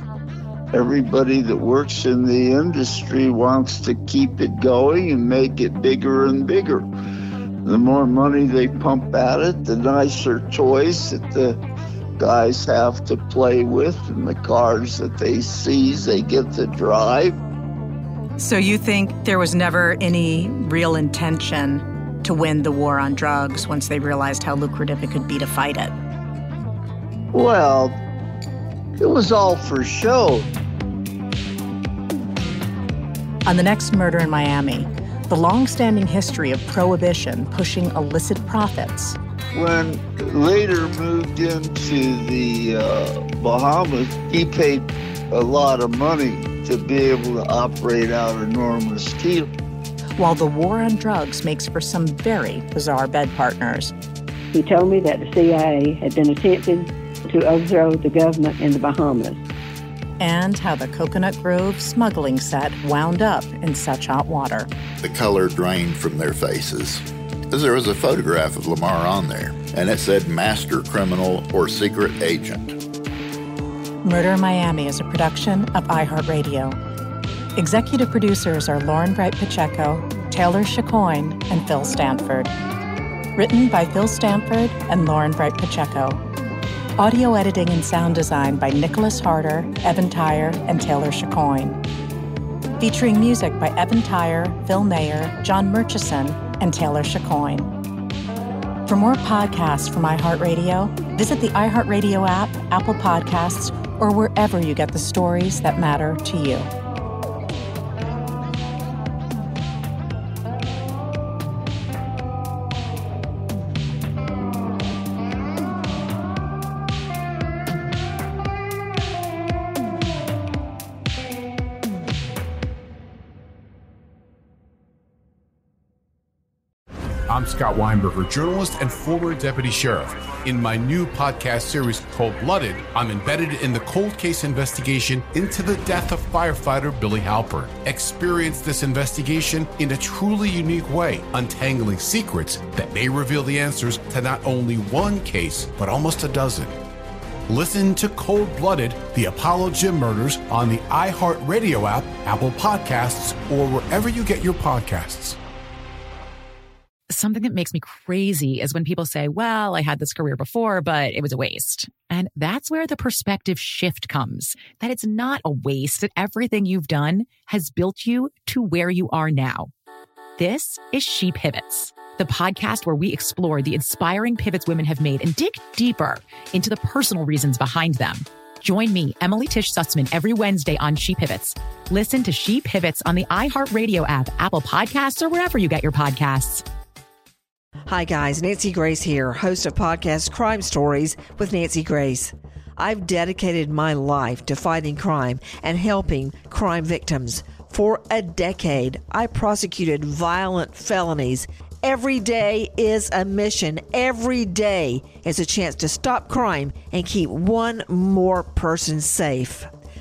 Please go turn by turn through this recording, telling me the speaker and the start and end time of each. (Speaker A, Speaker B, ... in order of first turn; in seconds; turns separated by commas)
Speaker A: 0.7-6.9, Speaker A: 7.6-11.6, Speaker A: 12.2-17.3, Speaker B: 18.4-25.9, Speaker A: 27.3-28.0, Speaker A: 29.0-30.5, Speaker B: 33.5-39.2, Speaker A: 39.5-49.5, Speaker B: 50.2-53.9, Speaker C: 54.5-59.4, Speaker B: 60.2-64.7, Speaker D: 65.0-72.8, Speaker B: 74.0-76.8, Speaker B: 77.5-82.5, Speaker B: 83.4-86.2, Speaker B: 87.0-91.8, Speaker B: 92.8-97.7, Speaker B: 98.9-106.7, Speaker E: 127.3-146.8, Speaker E: 147.5-155.4, Speaker F: 157.1-169.7, Speaker F: 170.4-186.6, Speaker G: 187.9-209.7